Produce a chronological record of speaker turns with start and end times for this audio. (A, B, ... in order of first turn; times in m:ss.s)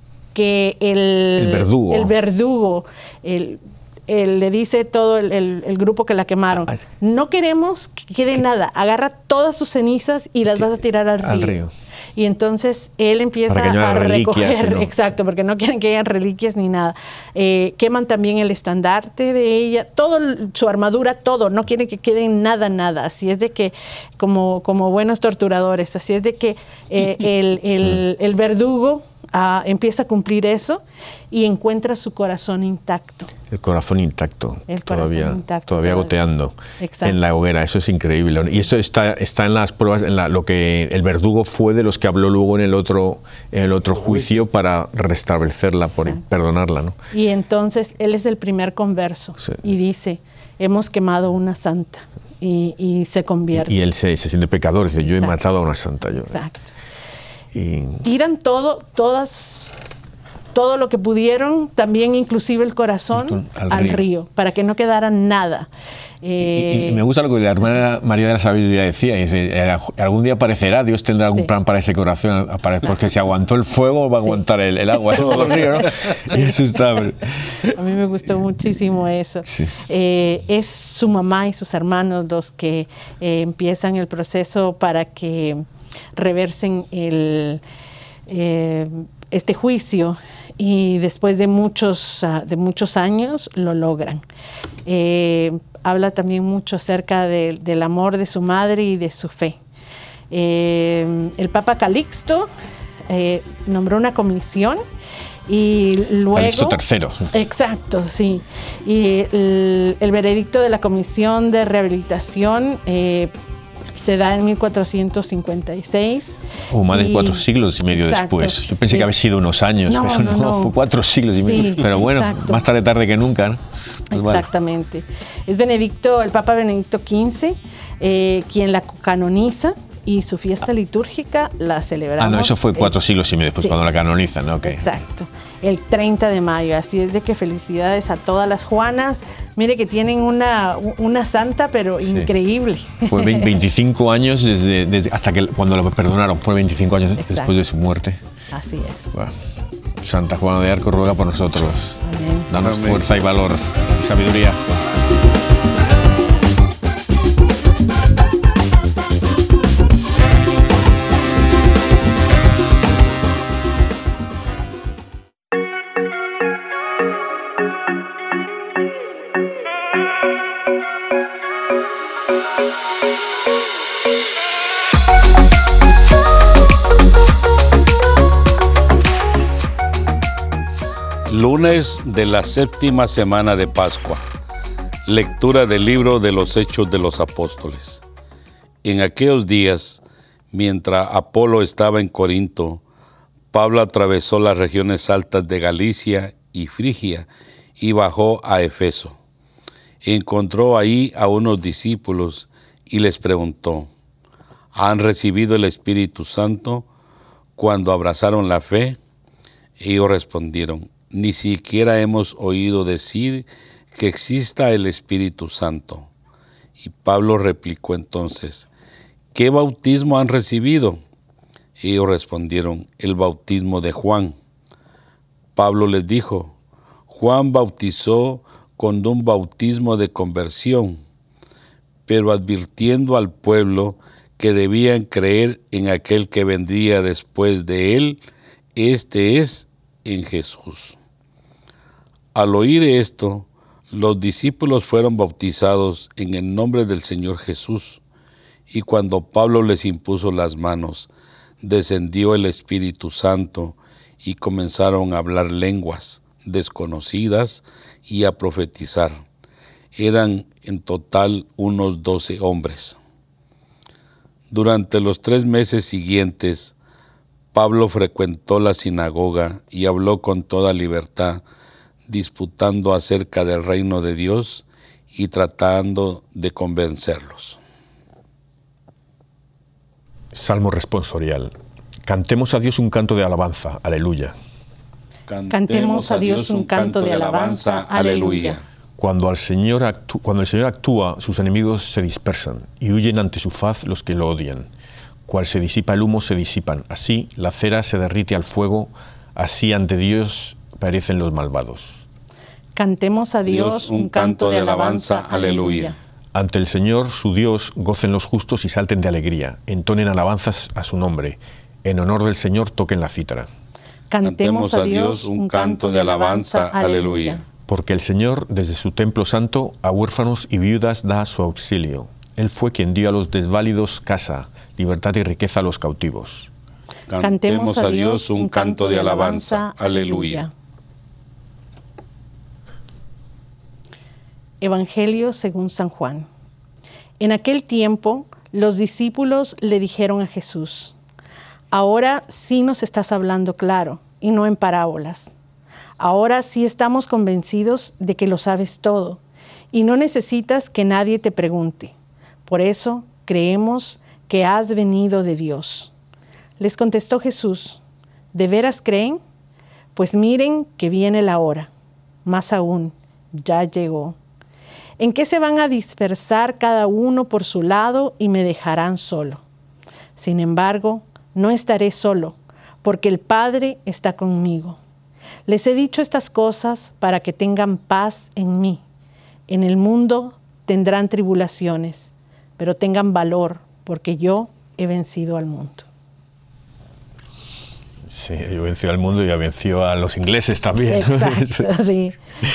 0:00.3-0:11.6 A
0:01.4-0:02.1 B
0:11.2-0:11.7 B
0:12.2-0:33.3 A
0:13.5-0:15.0 B
0:33.5-0:47.0 B
0:34.7-0:36.2 A
0:36.8-0:37.2 A
0:47.1-0:53.8 A
0:53.6-0:56.4 B
0:55.1-0:55.4 A
0:56.3-0:56.7 A
0:57.5-0:58.0 B
0:58.0-0:59.7 A
1:00.5-1:05.7 A
1:03.1-1:04.0 B
1:06.2-1:07.0 A
1:06.4-1:17.6 B
1:15.2-1:15.6 A
1:15.2-1:16.2 C
1:17.7-1:25.6 A
1:19.5-1:19.7 B
1:26.2-1:27.6 A
1:28.3-1:34.2 A
1:34.9-1:39.6 A
1:40.3-1:42.5 A
1:43.1-1:44.8 A
1:45.5-1:46.8 A
1:46.3-1:47.3 B
1:47.3-1:53.3 A
1:54.0-1:59.1 A
1:56.7-2:04.5 B
1:59.9-2:00.7 A
2:01.4-2:02.6 A
2:04.1-2:12.9 A
2:12.2-2:14.9 B
2:14.6-2:23.6 A
2:22.0-2:22.3 B
2:23.1-2:28.2 B
2:27.2-2:27.5 A
2:28.5-2:29.1 A
2:29.1-2:29.4 B
2:30.0-2:34.8 B
2:32.0-2:32.5 A
3:01.3-3:04.2 C
3:05.1-3:08.0 C
3:08.8-3:12.8 C
3:13.5-3:17.3 C
3:17.8-3:19.2 C
3:20.0-3:23.9 C
3:24.7-3:26.8 C
3:27.6-3:29.0 C
3:29.8-3:36.1 C
3:36.8-3:38.7 C
3:39.3-3:41.0 C
3:41.8-3:44.3 C
3:45.6-3:46.5 C
3:47.1-3:51.0 C
3:52.1-3:58.2 C
3:58.8-4:01.0 C
4:02.3-4:08.0 C
4:08.7-4:11.1 C
4:11.6-4:19.2 C
4:20.0-4:23.0 C
4:24.5-4:26.7 C
4:27.5-4:31.4 C
4:32.1-4:37.6 C
4:40.3-4:41.5 B
4:42.1-4:44.4 B
4:45.3-4:48.6 C
4:45.5-4:48.6 A
4:49.0-4:54.7 B
4:55.3-5:02.0 B
5:02.8-5:06.0 A
5:03.5-5:06.0 C
5:06.4-5:13.5 B
5:14.1-5:17.4 A
5:14.2-5:17.4 C
5:17.7-5:26.5 B
5:27.1-5:30.4 C
5:27.2-5:30.5 A
5:34.6-5:36.3 A
5:37.2-5:41.0 A
5:41.7-5:45.3 A
5:46.0-5:49.2 A
5:49.7-5:51.9 A
5:52.5-5:55.9 A
5:56.6-5:57.8 A
5:58.3-5:59.2 A
6:00.0-6:01.7 A
6:02.2-6:04.2 A
6:05.0-6:09.4 A
6:10.2-6:14.8 A
6:15.5-6:18.8 A
6:19.5-6:25.9 A
6:28.1-6:31.7 B
6:30.9-6:32.2 A